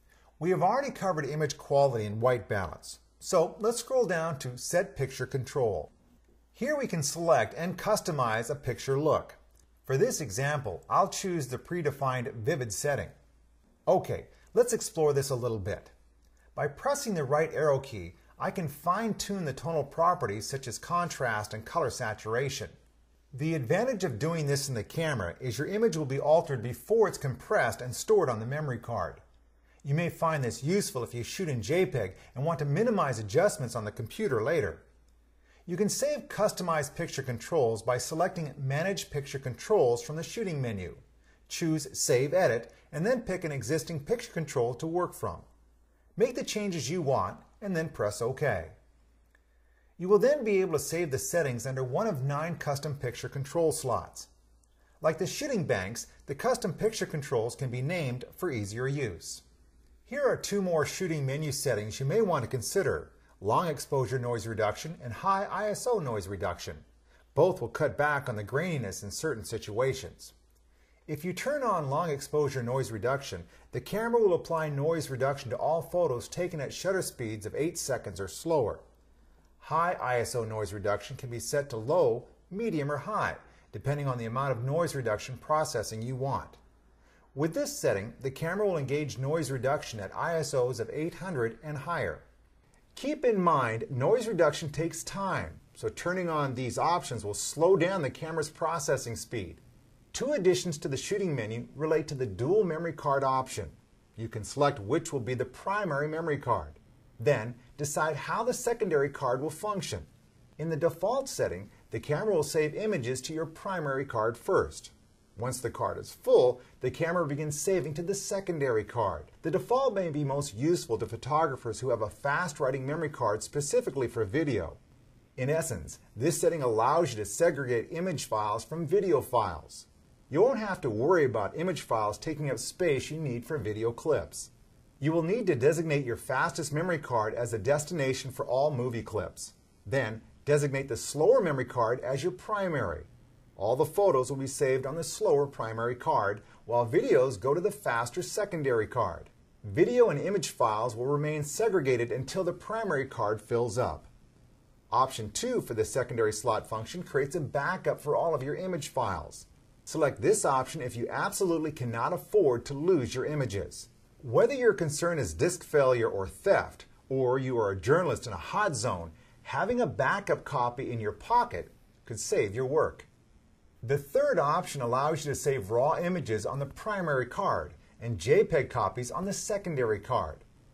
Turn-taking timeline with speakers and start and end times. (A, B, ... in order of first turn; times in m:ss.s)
0:00.4-0:05.9 A
0:06.5-0:13.1 A
0:13.9-0:15.9 A
0:16.6-0:22.8 A
0:23.3-0:29.2 A
0:29.8-0:34.8 A
0:35.7-0:45.5 A
0:46.2-0:48.8 A
0:50.0-0:54.3 A
0:55.0-0:59.4 A
1:00.1-1:10.3 A
1:11.1-1:18.8 A
1:19.6-1:26.6 A
1:27.4-1:32.2 A
1:33.0-1:39.6 A
1:40.1-2:04.8 A
2:05.4-2:34.1 A
2:34.9-2:53.1 A
2:53.8-3:00.4 A